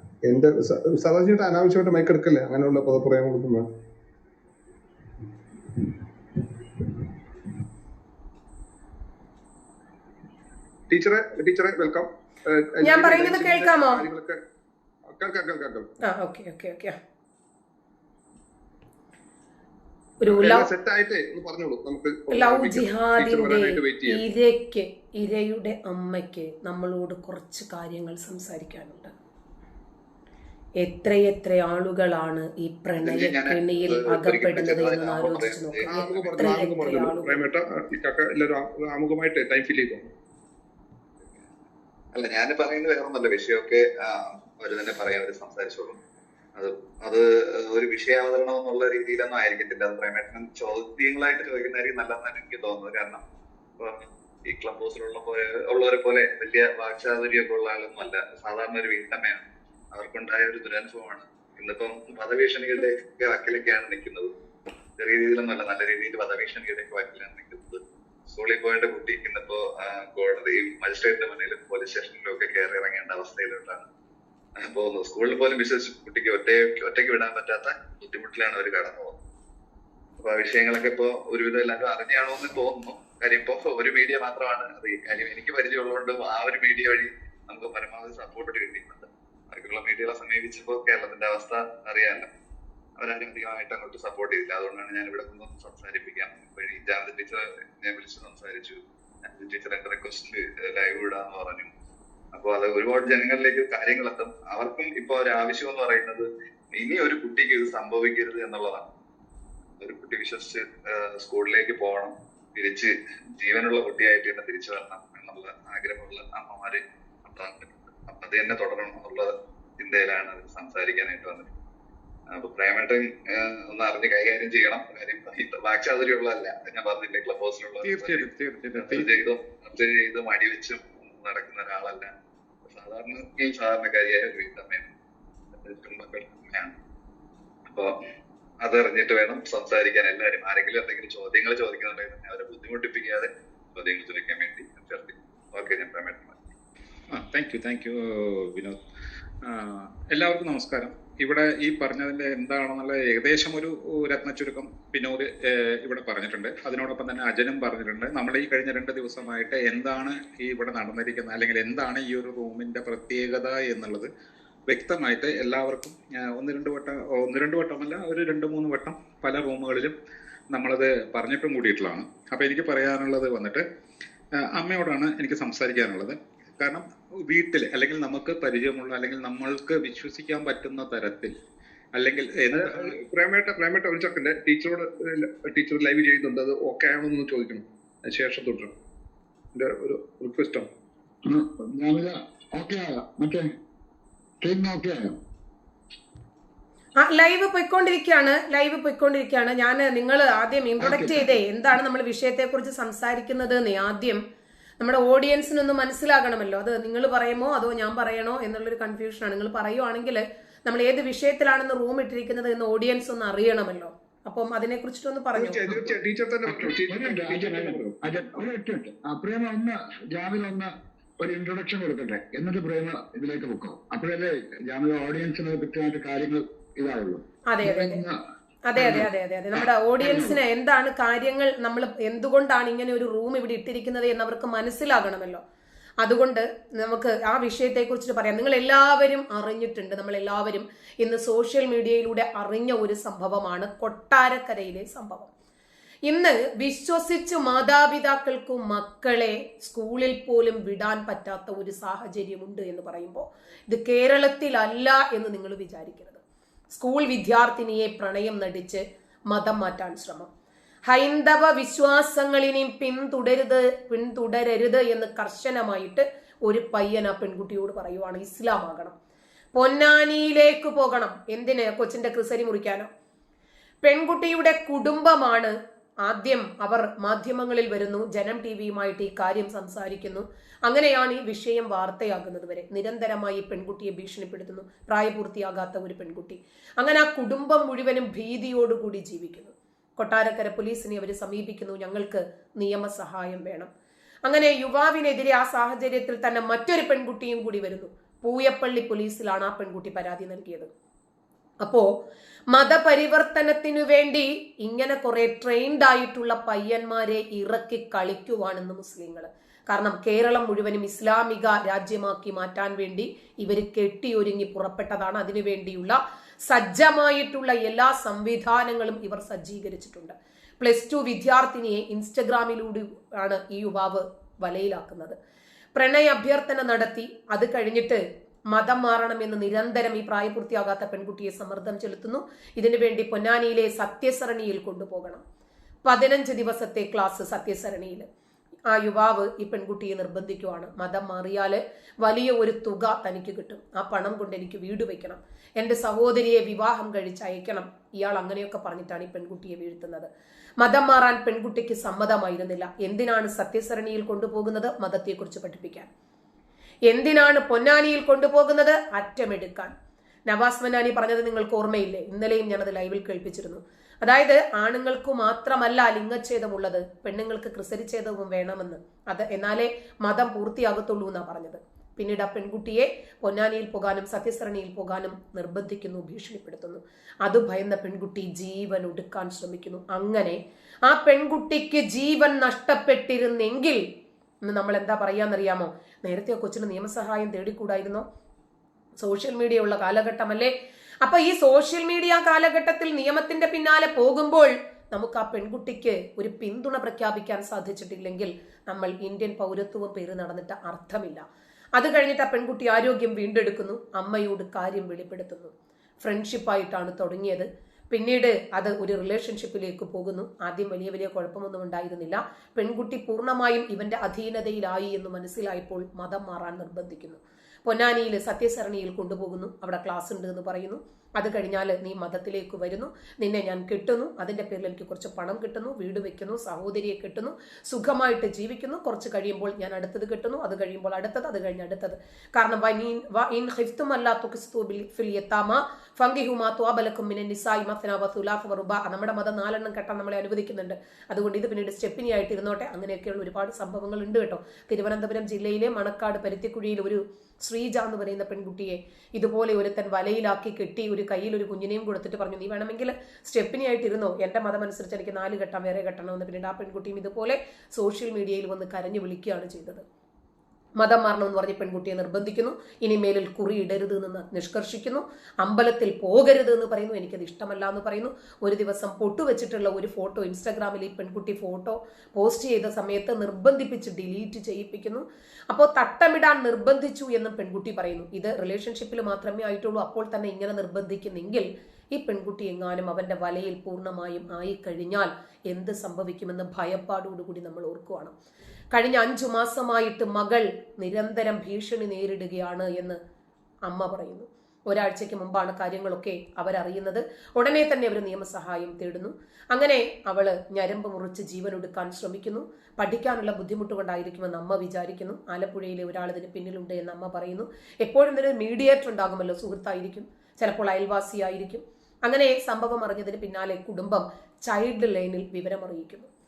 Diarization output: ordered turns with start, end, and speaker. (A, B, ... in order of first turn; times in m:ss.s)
0:00.2-0:03.6 A
0:10.9-0:14.4 A
0:12.8-0:14.0 B
0:15.1-0:15.9 A
0:16.0-0:17.0 B
0:20.2-0:20.7 B
0:20.2-0:24.2 A
0:22.3-0:29.1 B
0:30.8-0:37.4 B
0:33.0-0:36.5 C
0:35.9-0:40.1 A
0:41.2-0:41.5 C
0:42.1-0:46.0 C
0:46.6-0:53.2 C
0:53.8-1:04.3 C
1:05.0-1:13.8 C
1:14.6-1:19.2 C
1:20.2-1:32.3 C
1:33.0-1:41.7 C
1:42.3-1:48.9 C
1:49.8-2:01.5 C
2:02.3-2:12.1 C
2:07.8-2:09.1 D
2:12.7-2:14.9 C
2:15.6-2:16.8 C
2:17.7-2:17.9 C
2:18.6-2:26.4 C
2:27.1-2:28.8 D
2:29.4-2:44.1 D
2:44.7-2:49.9 D
2:50.5-2:53.6 D
2:54.6-3:01.3 D
3:01.9-3:03.0 D
3:02.5-3:08.7 A
3:09.5-3:10.7 A
3:11.2-3:13.5 E
3:14.4-3:15.2 E
3:17.0-3:24.2 B
3:20.8-3:21.4 E
3:24.8-3:35.9 B
3:35.3-3:37.9 A
3:36.4-3:48.2 E
3:47.5-3:48.0 B
3:48.6-3:55.4 B
3:48.7-3:49.1 E
3:49.6-3:50.4 E
3:56.0-4:05.3 B
4:06.0-4:20.3 B
4:20.9-4:28.9 B
4:29.5-4:32.9 B
4:33.8-4:35.5 B
4:36.0-4:53.7 B
4:54.2-5:00.7 B
5:01.6-5:01.9 B
5:02.5-5:25.2 B
5:25.7-5:28.0 B
5:28.5-5:35.2 B
5:35.8-5:38.0 B
5:38.7-5:50.1 B
5:50.6-5:55.9 B
5:56.9-5:59.7 B
6:00.3-6:23.8 B
6:24.4-6:28.0 B
6:29.0-6:30.5 B
6:31.0-7:39.8 B
7:40.8-8:08.1 B
8:08.7-8:13.0 B
8:13.7-8:36.1 B